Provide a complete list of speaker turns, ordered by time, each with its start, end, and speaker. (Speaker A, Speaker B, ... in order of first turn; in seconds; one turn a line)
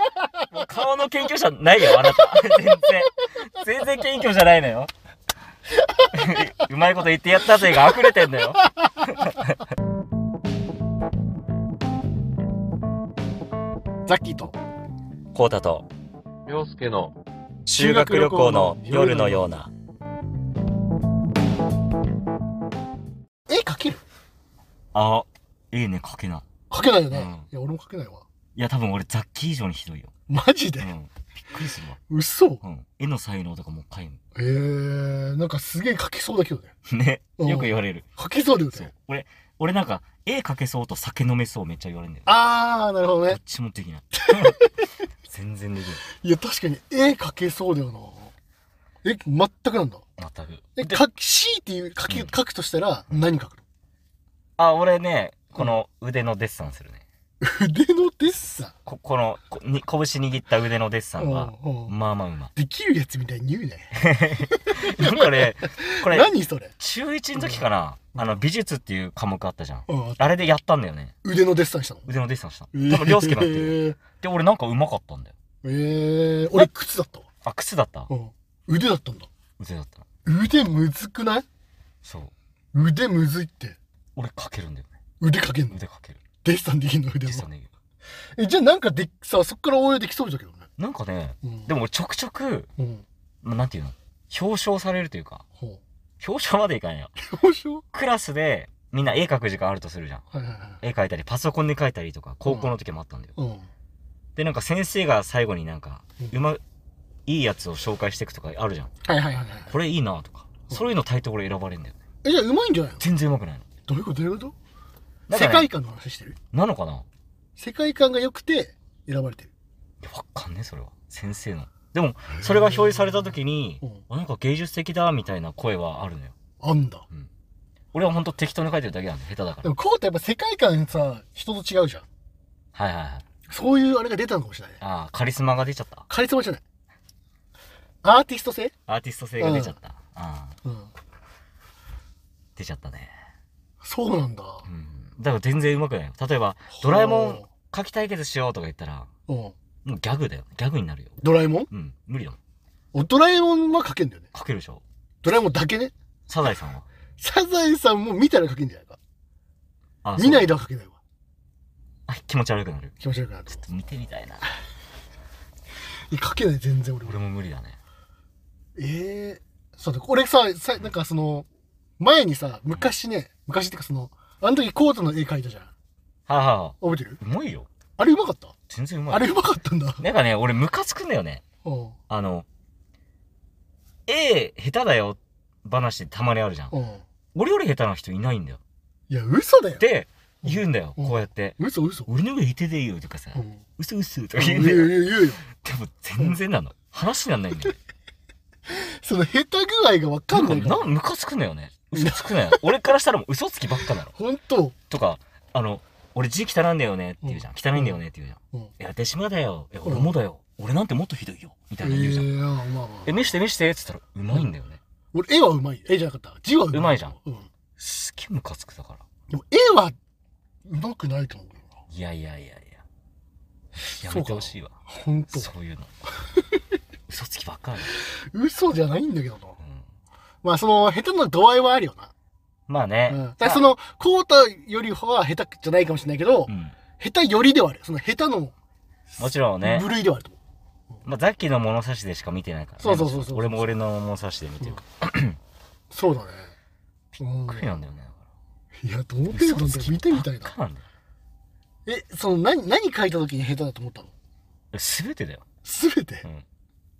Speaker A: 0.5-4.9
Speaker A: 6.1-9.4
Speaker B: 7.6-8.1
Speaker B: 8.8-9.1
Speaker B: 14.1-14.6
Speaker A: 15.3-15.8
Speaker A: 17.6-19.7
Speaker B: 17.7-19.5
Speaker B: 23.5-24.0
Speaker A: 24.9-26.4
Speaker B: 26.7-28.2
Speaker A: 27.1-27.5
Speaker A: 28.5-30.1
Speaker B: 30.3-30.9
Speaker A: 30.8-32.0
Speaker B: 32.1-32.6
Speaker A: 32.6-34.2
Speaker B: 34.3-36.7
Speaker A: 36.9-38.1
Speaker B: 37.4-38.9
Speaker A: 38.7-42.3
Speaker B: 42.2-43.4
Speaker A: 43.3-44.6
Speaker B: 44.2-44.8
Speaker A: 45.2-46.0
Speaker B: 46.1-48.3
Speaker B: 49.0-50.0
Speaker A: 50.2-51.0
Speaker B: 50.8-53.6
Speaker A: 54.6-57.0
Speaker B: 57.4-58.7
Speaker A: 58.9-62.5
Speaker B: 61.2-61.9
Speaker B: 62.5-66.7
Speaker A: 64.0-71.1
Speaker B: 67.4-67.6
Speaker B: 69.9-70.2
Speaker B: 71.2-72.1
Speaker A: 72.1-75.3
Speaker B: 72.7-74.0
Speaker B: 75.6-77.2
Speaker A: 77.4-78.1
Speaker B: 78.1-79.3
Speaker A: 79.6-80.0
Speaker B: 80.2-81.4
Speaker A: 82.0-82.3
Speaker B: 82.7-83.8
Speaker A: 84.2-84.9
Speaker B: 85.2-85.8
Speaker A: 85.7-86.2
Speaker B: 86.4-87.5
Speaker A: 87.3-87.7
Speaker B: 88.1-90.7
Speaker A: 90.8-92.7
Speaker B: 92.8-93.0
Speaker A: 93.4-95.4
Speaker A: 96.2-97.1
Speaker B: 97.2-97.8
Speaker A: 97.9-100.2
Speaker B: 100.3-100.8
Speaker A: 100.8-103.3
Speaker B: 103.4-103.7
Speaker A: 104.3-106.6
Speaker A: 107.3-108.9
Speaker B: 109.0-109.7
Speaker A: 109.7-112.0
Speaker B: 112.2-113.0
Speaker A: 113.0-113.6
Speaker B: 113.9-114.5
Speaker A: 115.3-115.7
Speaker B: 115.3-116.4
Speaker A: 116.5-117.0
Speaker B: 117.6-119.5
Speaker A: 120.0-126.3
Speaker B: 126.6-127.0
Speaker A: 127.9-129.7
Speaker B: 129.6-132.1
Speaker A: 132.7-133.2
Speaker B: 133.5-134.8
Speaker A: 134.8-136.1
Speaker B: 136.1-136.6
Speaker B: 138.0-138.7
Speaker A: 138.9-140.6
Speaker B: 139.4-139.7
Speaker B: 140.6-140.9
Speaker A: 142.6-143.1
Speaker B: 143.8-144.6
Speaker A: 144.7-149.1
Speaker B: 146.8-147.4
Speaker B: 149.3-149.5
Speaker A: 149.8-151.2
Speaker B: 151.2-151.7
Speaker A: 151.7-152.4
Speaker B: 152.9-154.3
Speaker A: 154.3-154.8
Speaker B: 155.2-155.9
Speaker A: 156.3-156.8
Speaker B: 157.2-159.0
Speaker A: 160.0-160.5
Speaker B: 160.2-161.0
Speaker A: 162.1-162.9
Speaker B: 163.0-163.6
Speaker A: 163.5-164.5
Speaker B: 166.1-167.2
Speaker A: 167.1-167.8
Speaker B: 168.8-171.5
Speaker B: 172.0-175.7
Speaker A: 176.3-177.7
Speaker B: 176.8-177.2
Speaker B: 178.0-178.5
Speaker A: 178.7-179.4
Speaker B: 179.1-180.0
Speaker A: 180.0-181.4
Speaker B: 181.6-181.9
Speaker A: 182.1-182.4
Speaker A: 184.1-186.7
Speaker B: 186.7-187.0
Speaker A: 187.3-188.6
Speaker B: 189.1-189.8
Speaker A: 189.8-197.8
Speaker B: 190.4-192.1
Speaker B: 193.3-193.6
Speaker B: 194.3-195.4
Speaker B: 198.7-200.9
Speaker A: 200.3-204.1
Speaker B: 201.9-202.6
Speaker B: 204.0-204.7
Speaker A: 204.9-212.3
Speaker B: 207.2-208.0
Speaker B: 209.8-210.1
Speaker B: 211.8-213.2
Speaker A: 213.0-214.8
Speaker B: 215.1-217.5
Speaker A: 216.7-217.2
Speaker A: 217.8-219.0
Speaker B: 219.3-219.9
Speaker B: 220.6-221.7
Speaker A: 221.9-222.8
Speaker B: 223.8-225.5
Speaker A: 224.0-224.8
Speaker A: 225.3-225.9
Speaker A: 227.1-227.9
Speaker B: 227.9-229.6
Speaker B: 230.4-232.1
Speaker A: 232.7-233.6
Speaker B: 233.1-238.5
Speaker A: 236.5-236.8
Speaker B: 239.1-240.3
Speaker A: 239.2-239.9
Speaker A: 241.0-245.4
Speaker B: 242.8-243.7
Speaker B: 245.9-246.5
Speaker A: 247.1-248.2
Speaker B: 247.2-247.8
Speaker B: 248.8-250.5
Speaker A: 249.3-250.8
Speaker B: 251.8-254.1
Speaker A: 254.7-255.4
Speaker B: 255.6-256.2